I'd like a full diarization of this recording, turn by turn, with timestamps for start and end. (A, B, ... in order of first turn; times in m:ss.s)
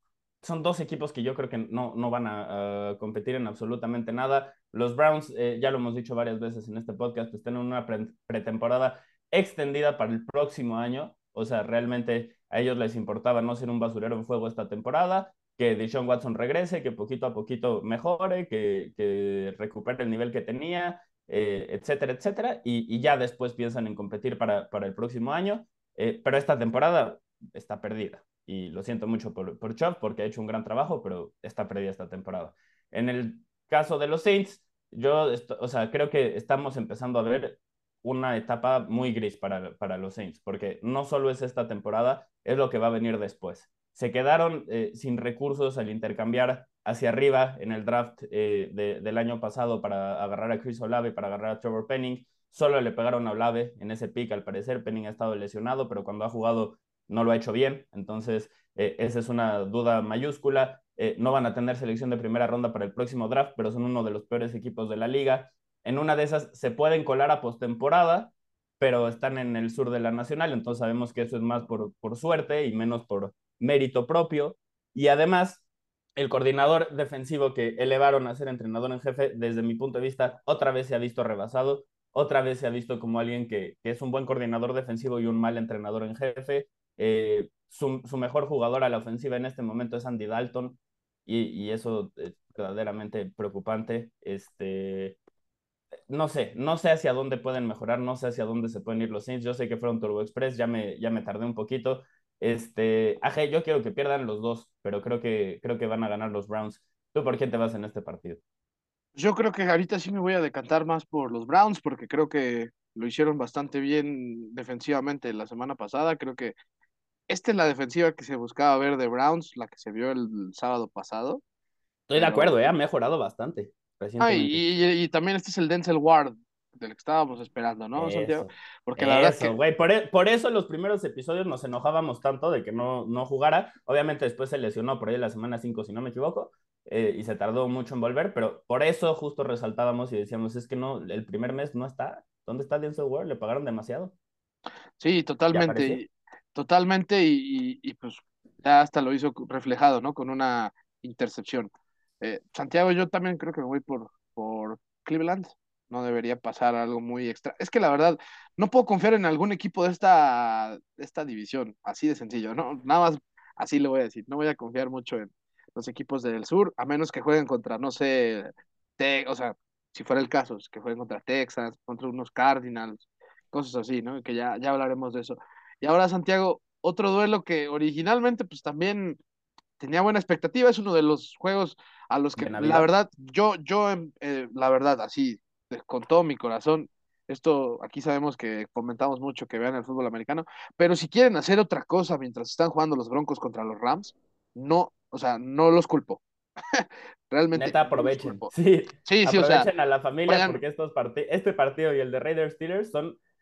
0:00.4-1:15.6 A
1:16.2-1:35.2 A
1:36.1-1:48.4 A
1:49.2-1:56.5 B
1:57.3-2:01.4 B
2:02.1-2:04.6 A
2:02.2-2:02.7 B
2:04.2-2:09.5 B
2:08.0-2:24.2 A
2:25.0-2:59.2 B
2:25.5-2:26.0 A
2:59.8-3:18.5 B
3:02.4-3:02.9 A
3:17.5-3:23.2 A
3:19.1-3:19.7 B
3:20.3-3:20.6 B